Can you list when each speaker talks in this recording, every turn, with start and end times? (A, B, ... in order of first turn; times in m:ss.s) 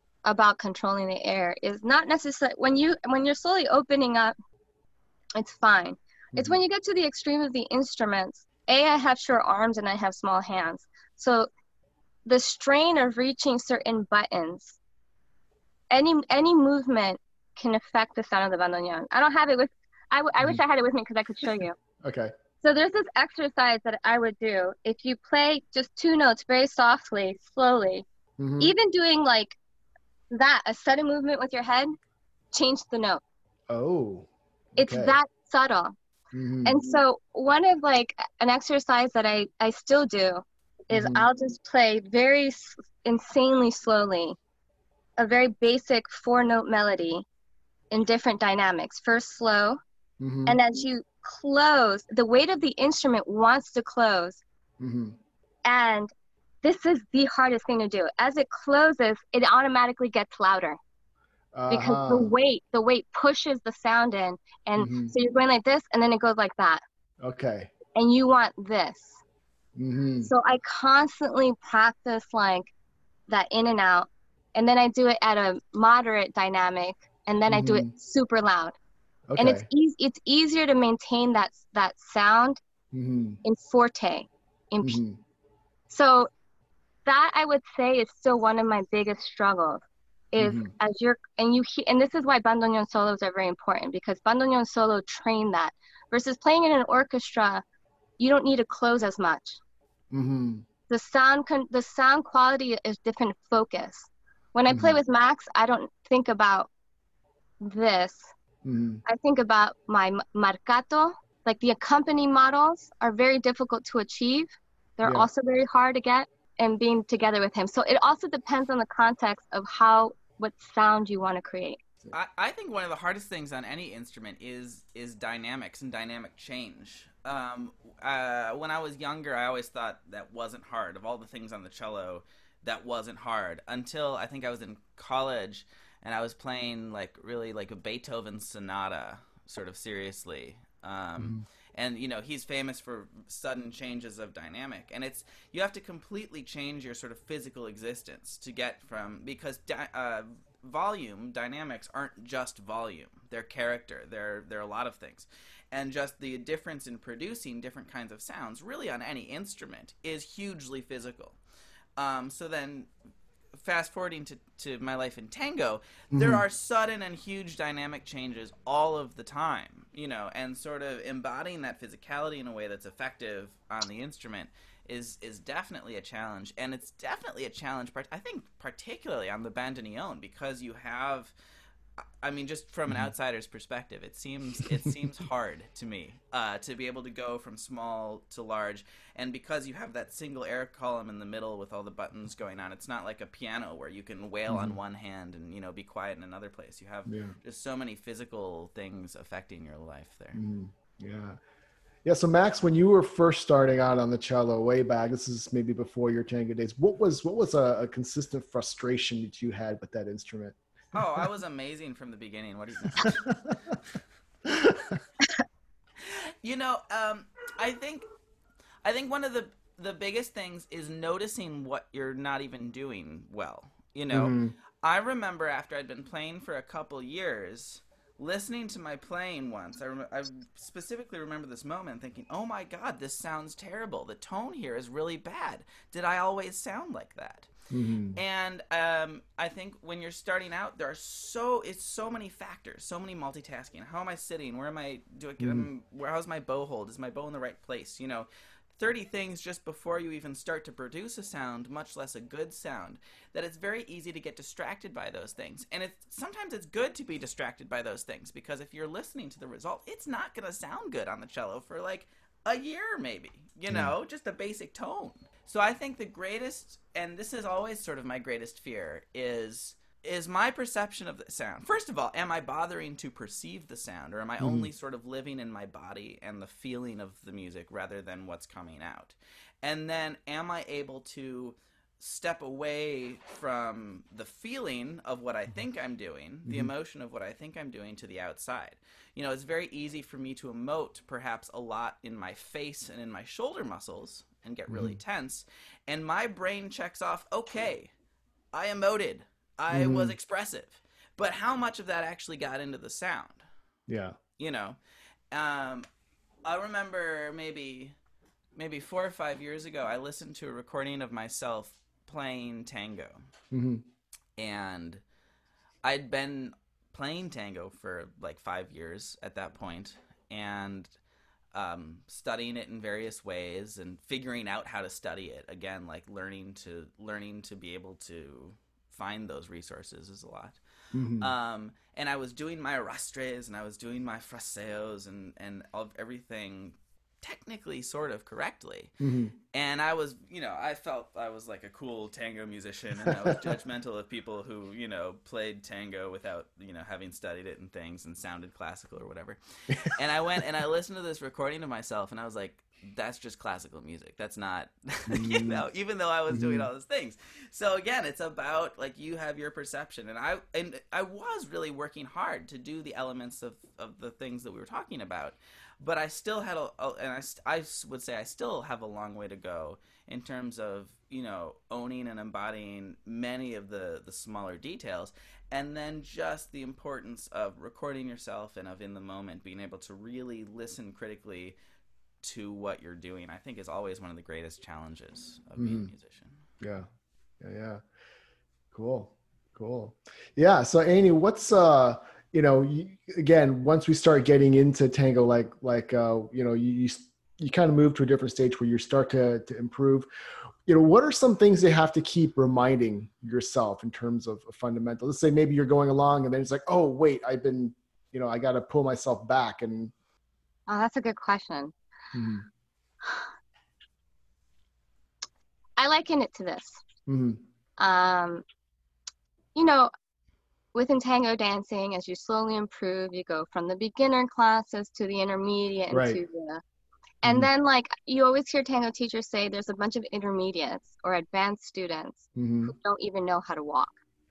0:00.2-0:04.4 A
0:05.4-0:11.5 A
0:06.3-0:06.6 B
0:12.3-0:14.8 A
0:15.9-0:21.8 A
0:22.0-0:22.3 B
0:22.6-0:28.0 A
0:28.4-0:28.8 B
0:28.6-0:29.6 A
0:30.3-0:31.9 A
0:32.5-0:33.2 A
0:33.7-0:35.2 B
0:34.8-0:36.0 A
0:36.3-0:36.8 B
0:36.6-0:44.4 A
0:40.9-0:41.3 B
0:45.2-0:47.2 A
0:47.9-0:49.8 A
0:50.2-0:50.6 B
0:50.5-0:54.4 A
0:54.8-0:55.2 B
0:55.6-0:56.1 A
0:56.6-1:00.8 A
1:01.5-1:02.3 B
1:01.7-1:06.8 A
1:04.8-1:05.1 B
1:07.2-1:07.7 B
1:08.0-1:09.2 A
1:09.8-1:10.3 B
1:10.2-1:12.7 A
1:13.3-1:18.8 A
1:17.5-1:17.9 B
1:19.3-1:19.7 B
1:19.4-1:22.6 A
1:22.9-1:23.4 B
1:23.4-1:25.0 A
1:24.8-1:25.2 B
1:25.9-1:26.3 A
1:27.1-1:37.6 A
1:30.4-1:30.7 B
1:38.2-1:39.6 A
1:40.1-1:40.6 B
1:40.9-1:46.7 A
1:44.7-1:45.0 B
1:47.6-1:48.3 A
1:48.6-1:49.0 B
1:49.0-2:01.8 A
2:02.1-2:41.4 C
2:21.2-2:21.4 B
2:42.0-2:42.9 C
2:43.6-3:01.3 C
2:46.1-2:46.4 B
3:02.2-3:20.4 C
3:04.6-3:05.0 B
3:14.5-3:14.8 B
3:17.1-3:17.4 B
3:20.3-3:21.4 B
3:22.0-3:30.6 B
3:30.9-3:33.4 C
3:33.0-3:33.8 B
3:34.4-3:35.0 B
3:36.0-3:38.1 C
3:38.8-3:57.5 C
3:44.1-3:44.5 B
3:57.7-3:58.2 B
3:58.2-4:57.9 C
4:05.4-4:05.7 B
4:23.7-4:23.9 B
4:34.4-4:34.7 B
4:46.5-4:46.7 B
4:54.7-4:55.0 B
4:58.5-5:03.4 C
4:59.7-5:00.2 B
5:03.9-5:04.2 B
5:04.4-5:04.8 C
5:05.3-5:05.9 C
5:06.4-5:08.0 C
5:08.6-5:13.2 C
5:13.5-5:13.9 B
5:14.4-5:15.0 C
5:15.8-5:20.9 C
5:21.5-5:30.6 C
5:30.9-5:31.3 B
5:31.2-5:38.9 C
5:39.0-5:39.3 B
5:39.5-6:21.6 C
5:43.0-5:43.4 B
5:55.1-5:55.6 B
5:56.3-5:56.7 B
6:22.2-6:26.4 C
6:25.6-6:25.9 B
6:26.6-6:26.9 B
6:27.4-6:27.8 B
6:28.7-6:40.1 B
6:40.7-6:49.9 B
6:50.7-6:51.7 A
6:52.1-6:52.5 B
6:55.8-6:56.8 A
6:57.1-6:57.4 B
6:57.8-6:58.4 A
6:59.6-6:59.9 A
7:00.7-7:06.6 A
7:05.9-7:06.2 B
7:07.2-7:14.0 A
7:12.4-7:12.7 B